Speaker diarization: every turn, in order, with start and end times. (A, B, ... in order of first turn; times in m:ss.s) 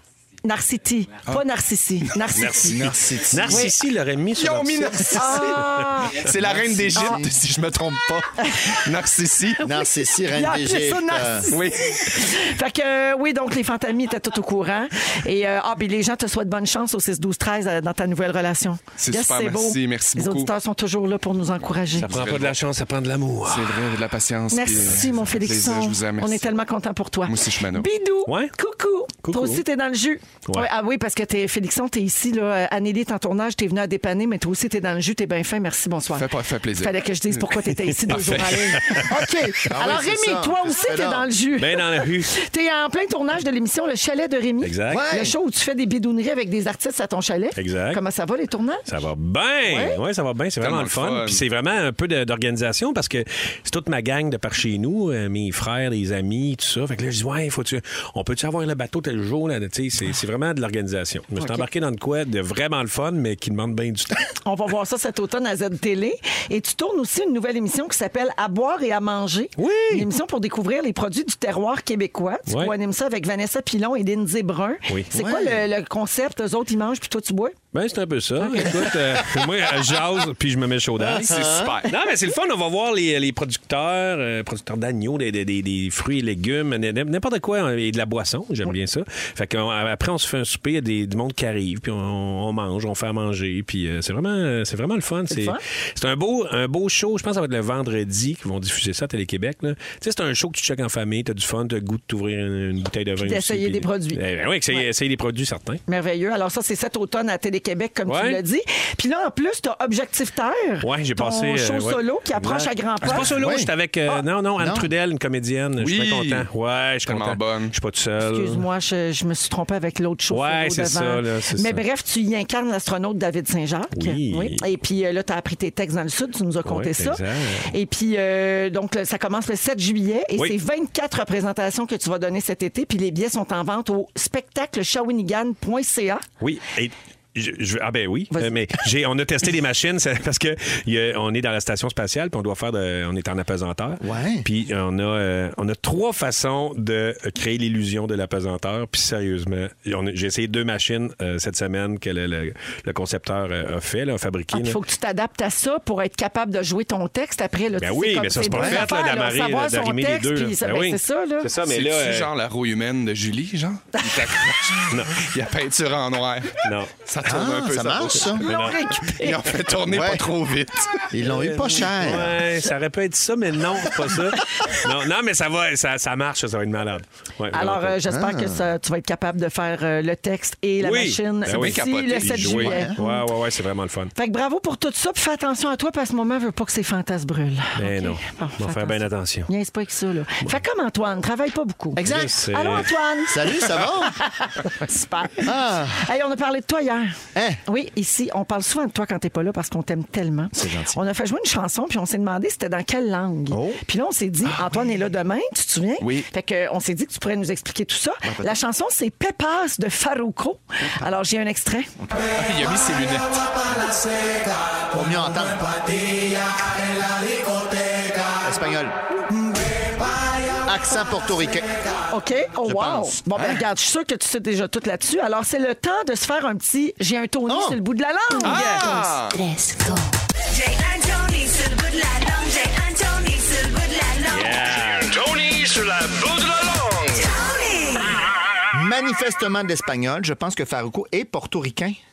0:00.4-0:03.7 A
0:02.4-0:06.1 B
0:02.6-0:03.7 C
0:04.3-0:09.6 D
0:05.1-0:06.2 A
0:06.4-0:07.3 C
0:06.9-0:07.2 A
0:08.4-0:08.8 A
0:09.6-0:11.5 C
0:09.7-0:22.1 A
0:11.5-0:12.2 D
0:19.0-0:20.5 D
0:22.0-0:23.8 B
0:22.1-0:22.6 D
0:23.5-0:26.5 D
0:24.5-0:48.9 A
0:27.3-0:27.9 D
0:28.3-0:28.5 B
0:29.2-0:29.6 B
0:36.2-0:36.9 D
0:38.0-0:39.2 B
0:38.1-0:39.0 D
0:39.4-0:41.3 C
0:41.6-0:42.4 B
0:44.6-0:45.1 B
0:44.9-0:45.4 C
0:47.6-0:48.0 B
0:48.9-1:04.3 B
0:49.6-0:50.0 A
0:50.6-0:51.4 D
1:01.4-1:01.7 A
1:04.4-1:17.6 A
1:09.6-1:10.1 B
1:12.5-1:12.8 B
1:15.1-1:15.6 C
1:17.7-1:45.8 B
1:18.4-1:18.9 A
1:19.1-1:19.4 C
1:21.0-1:21.7 C
1:21.3-1:22.0 D
1:35.3-1:35.6 A
1:43.2-1:44.9 A
1:45.9-1:53.4 A
1:48.1-1:48.4 B
1:50.8-1:58.6 B
1:53.2-1:53.7 C
1:54.6-1:54.9 C
1:55.8-1:56.5 D
1:57.0-1:57.8 D
1:58.3-2:16.2 A
2:00.3-2:01.8 B
2:03.9-2:04.6 B
2:06.6-2:07.7 B
2:16.4-2:34.8 B
2:24.0-2:24.5 C
2:34.5-2:41.5 A
2:37.8-2:42.3 B
2:38.4-2:38.9 C
2:41.6-2:48.4 D
2:44.0-2:44.2 A
2:44.9-2:45.3 B
2:46.6-2:46.9 B
2:47.2-2:48.4 C
2:48.4-2:48.8 B
2:48.4-2:49.4 A
2:49.2-2:51.1 D
2:49.9-2:50.3 C
2:51.1-2:52.5 C
2:51.2-2:58.0 B
2:57.5-3:03.3 A
2:58.1-2:58.7 C
3:00.8-3:04.1 B
3:01.5-3:02.7 D
3:02.6-3:03.0 C
3:04.2-3:31.9 A
3:07.8-3:09.5 B
3:12.0-3:12.4 C
3:12.0-3:12.9 B
3:13.2-3:14.2 C
3:15.4-3:16.1 C
3:17.4-3:17.6 C
3:20.6-3:21.0 C
3:23.5-3:23.8 C
3:26.0-3:26.3 D
3:28.2-3:28.6 C
3:32.4-3:34.1 D
3:34.9-3:36.4 C
3:38.2-3:39.0 C
3:40.6-3:41.7 C
3:42.1-3:49.1 A
3:42.6-3:43.4 C
3:47.5-3:47.8 C
3:48.4-3:49.4 D
3:49.5-3:50.0 E
3:50.6-3:54.6 E
3:54.3-3:55.2 B
3:55.1-3:57.2 F
3:57.3-3:58.0 E
3:58.7-4:02.0 C